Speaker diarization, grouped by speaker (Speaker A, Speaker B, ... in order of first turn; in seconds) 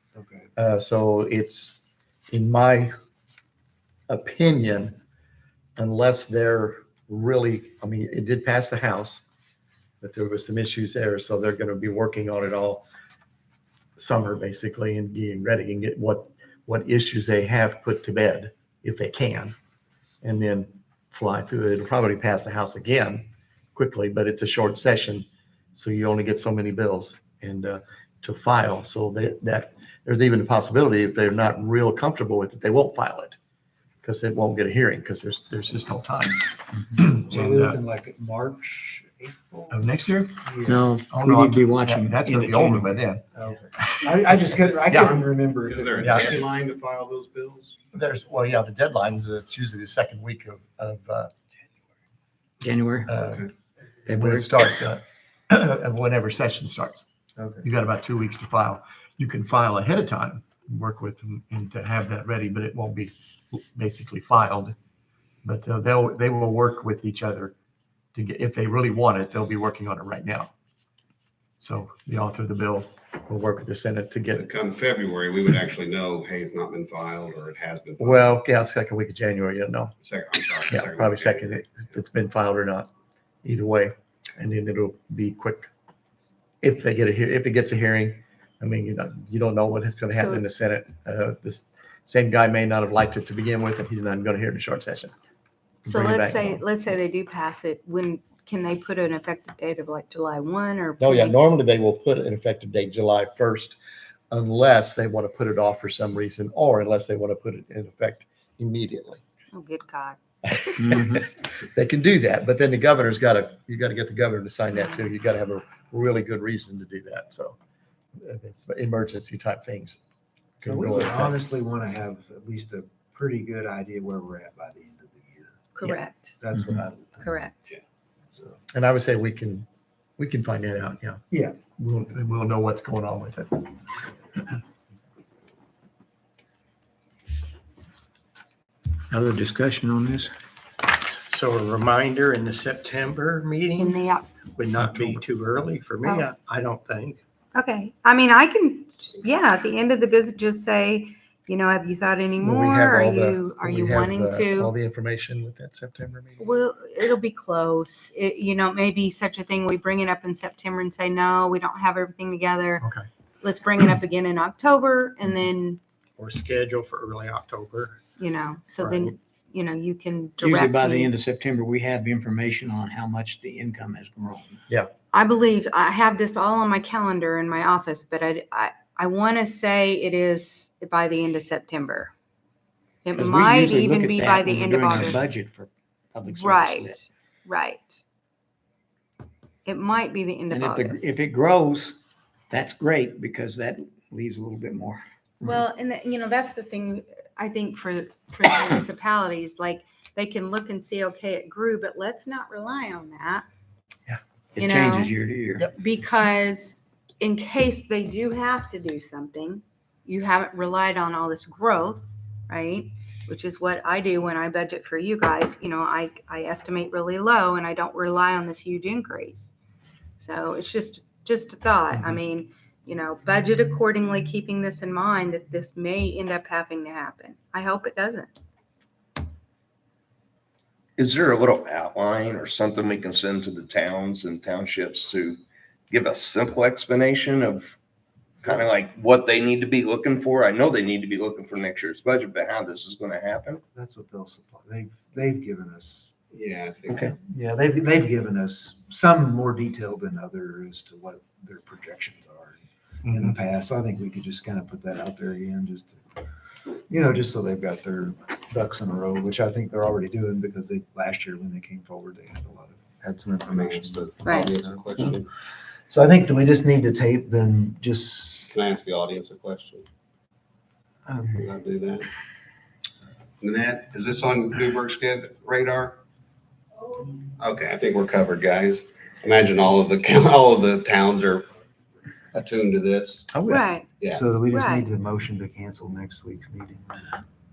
Speaker A: 0.1-0.5, 37.2-39.8, 40.4-40.9, 43.3-46.8, 57.4-57.6, 120.6-125.6, 126.4-127.4, 128.3-128.6, 131.3-131.6, 243.7-246.1, 247.2-256.0, 256.9-265.1, 265.9-268.5, 271.1-271.5, 284.1-287.0
Speaker B: 0.6-2.9, 4.1-5.0, 5.8-9.2, 10.0-12.8, 14.0-19.5, 20.2-33.4, 34.0-37.8, 39.7-40.5, 41.1-43.2, 44.8-45.2, 46.0-46.4, 47.9-51.3, 53.1-53.5, 54.1-57.0, 57.6-64.7, 65.4-67.5, 68.1-70.5, 71.6-74.5, 78.0-79.9, 80.7-82.9, 83.4-85.7, 86.6-95.1, 95.8-96.6, 101.0-103.8, 104.3-109.2, 110.4-117.6, 118.2-120.0, 120.6-121.4, 128.7-129.7, 130.2-131.2, 131.8-133.7, 144.6-145.2, 152.4-156.4, 162.8-163.1, 253.1-253.3, 283.3-283.6
Speaker C: 40.7-42.9, 52.6-53.1, 54.1-54.5, 110.8-111.2, 139.1-140.3, 170.4-174.6, 183.1-187.1, 190.5-192.0, 192.5-195.6, 204.5-205.7
Speaker D: 45.6-47.7, 74.3-78.3, 80.0-81.7, 246.3-247.1, 263.5-265.3, 268.5-269.8, 271.3-272.1, 273.4-276.0, 277.4-281.4, 282.3-283.3
Speaker E: 90.1-90.4, 95.8-101.4, 109.5-110.2, 125.7-126.3, 127.2-127.5, 143.8-144.5, 147.5-154.7, 156.4-162.8, 163.4-165.8, 168.2-171.1, 175.1-182.1, 183.0-185.2, 186.3-188.0, 189.7-191.0, 195.4-203.4, 204.6-205.1, 205.8-219.5, 220.2-228.3, 264.2-264.5, 283.5-283.9, 284.5-284.9
Speaker F: 141.3-144.0, 144.5-147.2, 166.2-168.0, 168.8-169.1
Speaker G: 231.0-237.7, 238.4-243.6